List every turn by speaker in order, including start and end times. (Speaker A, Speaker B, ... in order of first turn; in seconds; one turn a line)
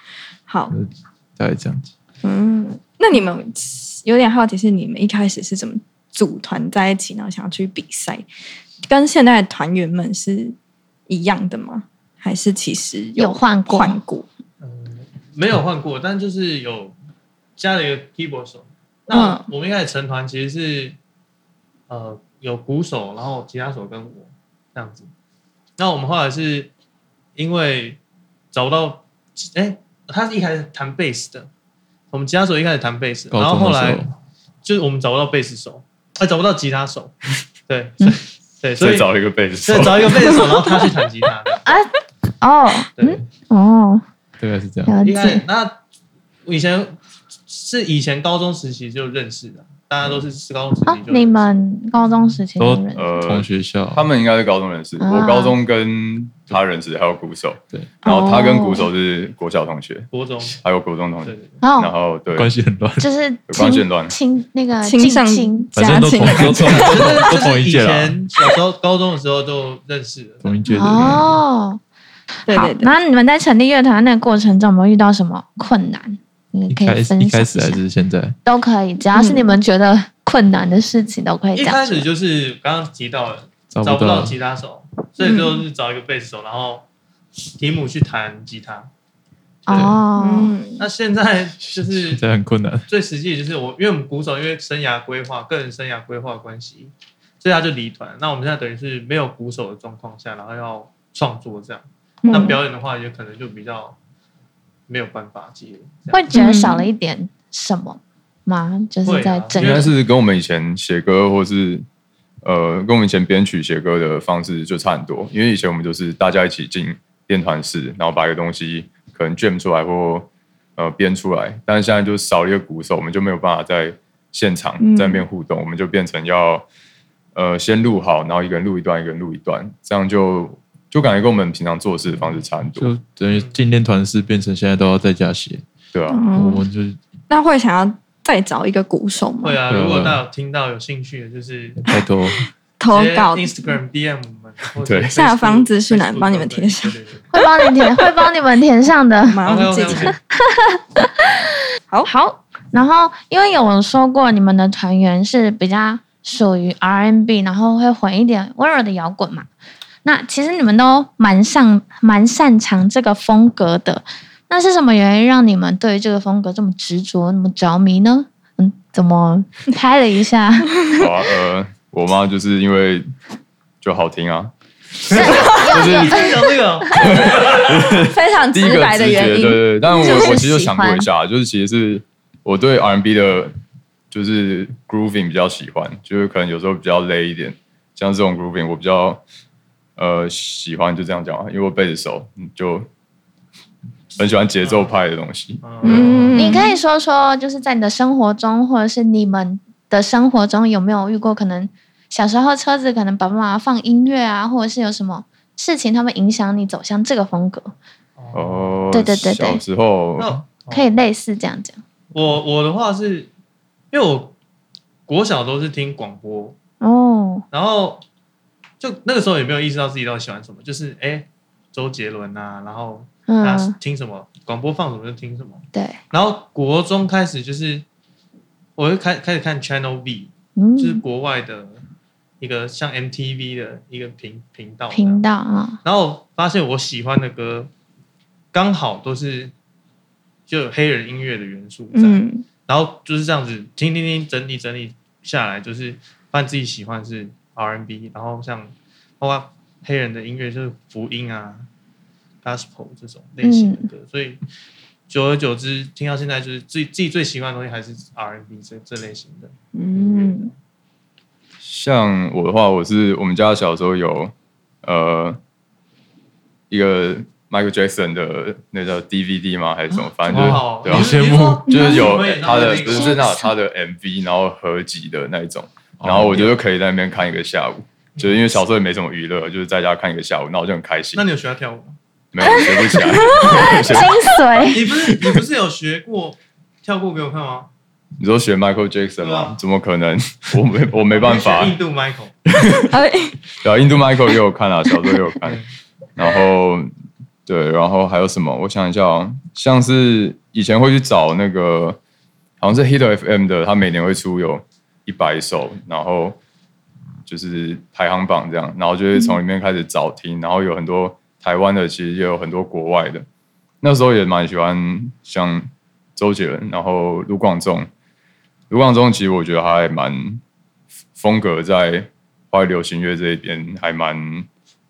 Speaker A: 0.5-0.7
Speaker B: 0.7-1.9
Speaker A: 2.2-8.2
Speaker A: 8.8-10.6
Speaker A: 11.1-14.2
Speaker C: 13.2-14.0
Speaker D: 14.6-16.9
Speaker D: 17.6-21.0
Speaker A: 19.1-19.4
Speaker D: 21.9-25.1
Speaker D: 25.8-26.7
Speaker D: 27.4-28.0
Speaker D: 28.5-31.5
Speaker D: 32.1-34.1
Speaker B: 33.3-34.1
Speaker D: 34.6-37.1
Speaker D: 37.7-39.1
Speaker E: 38.8-40.4
Speaker D: 39.6-41.7
Speaker C: 42.4-44.0
Speaker B: 44.4-45.0
Speaker C: 44.9-45.4
Speaker D: 45.0-45.8
Speaker D: 46.5-47.0
Speaker D: 47.5-51.6
Speaker C: 50.9-53.1
Speaker B: 52.6-54.0
Speaker E: 52.9-60.1
Speaker C: 55.0-55.5
Speaker A: 58.0-58.8
Speaker C: 58.1-58.8
Speaker D: 60.1-60.6
Speaker E: 60.6-62.5
Speaker D: 61.2-61.6
Speaker C: 61.6-61.9
Speaker B: 62.3-63.1
Speaker C: 63.0-66.5
Speaker E: 63.5-64.1
Speaker A: 64.8-67.2
Speaker B: 65.7-68.2
Speaker D: 66.8-70.6
Speaker B: 70.4-71.4
Speaker C: 70.7-71.8
Speaker C: 72.4-77.8
Speaker A: 72.5-72.9
Speaker B: 76.7-78.4
Speaker C: 78.4-82.0
Speaker A: 79.1-79.5
Speaker D: 81.5-88.9
Speaker B: 83.7-84.3
Speaker A: 85.2-85.6
Speaker C: 89.7-90.5
Speaker B: 89.7-90.0
Speaker A: 90.2-90.8
Speaker D: 90.8-92.2
Speaker B: 91.7-92.9
Speaker D: 92.9-104.0
Speaker A: 102.2-102.6
Speaker C: 102.3-102.5
Speaker D: 104.9-106.2
Speaker C: 106.1-109.9
Speaker A: 106.3-106.9
Speaker D: 109.0-109.9
Speaker E: 109.5-111.8
Speaker E: 112.4-126.6
Speaker A: 124.8-125.2
Speaker E: 127.3-132.9
Speaker B: 132.7-135.6
Speaker D: 133.3-133.6
Speaker E: 135.9-136.2
Speaker A: 136.1-136.6
Speaker B: 136.3-137.0
Speaker A: 137.3-139.6
Speaker D: 139.4-141.8
Speaker B: 139.7-140.2
Speaker B: 141.8-142.5
Speaker A: 142.8-143.8
Speaker D: 142.9-147.4
Speaker E: 144.8-145.1
Speaker A: 145.1-146.9
Speaker C: 147.3-151.4
Speaker A: 149.3-150.2
Speaker D: 149.4-150.2
Speaker C: 152.0-159.5
Speaker C: 160.0-170.7
Speaker E: 170.9-173.1
Speaker E: 173.8-174.5
Speaker C: 175.1-176.6
Speaker D: 175.1-177.9
Speaker E: 175.1-176.2
Speaker E: 176.9-183.5
Speaker A: 177.8-180.4
Speaker C: 179.9-181.1
Speaker E: 184.1-189.2
Speaker E: 190.0-192.9
Speaker E: 194.2-195.9
Speaker D: 194.6-194.9
Speaker D: 195.6-196.6
Speaker A: 195.8-196.7
Speaker B: 195.9-196.3
Speaker C: 196.3-207.7
Speaker D: 208.2-208.8
Speaker E: 208.3-210.4
Speaker C: 208.9-209.6
Speaker D: 210.2-210.9
Speaker C: 210.7-211.8
Speaker D: 212.1-213.3
Speaker D: 213.9-214.3
Speaker D: 215.1-216.6
Speaker C: 216.8-217.4
Speaker D: 217.5-218.0
Speaker D: 218.8-227.8
Speaker C: 223.3-223.8
Speaker C: 225.7-226.0
Speaker D: 228.8-231.8
Speaker C: 230.6-231.0
Speaker D: 232.4-235.2
Speaker C: 234.9-235.8
Speaker D: 235.8-237.7
Speaker D: 238.5-239.5
Speaker D: 240.5-251.7
Speaker A: 241.9-242.4
Speaker D: 252.4-254.4
Speaker C: 253.4-253.9
Speaker D: 255.1-260.5
Speaker A: 259.7-260.5
Speaker E: 261.6-265.4
Speaker E: 266.7-281.2
Speaker D: 269.9-273.2
Speaker B: 270.2-271.8
Speaker C: 271.7-272.1
Speaker C: 272.8-273.5
Speaker B: 276.0-276.5
Speaker D: 278.1-278.4
Speaker D: 281.1-281.9
Speaker E: 282.3-284.3
Speaker C: 282.4-282.7
Speaker A: 282.5-283.9
Speaker C: 283.4-284.8
Speaker D: 284.7-287.7
Speaker E: 288.2-291.8
Speaker D: 289.2-289.6
Speaker D: 291.1-292.3
Speaker E: 292.5-292.9
Speaker A: 292.9-293.4
Speaker E: 293.6-295.6
Speaker E: 296.2-296.9
Speaker E: 297.4-302.0
Speaker E: 302.6-306.4
Speaker E: 307.2-313.2
Speaker E: 313.8-317.9
Speaker E: 318.7-320.4
Speaker E: 321.1-324.5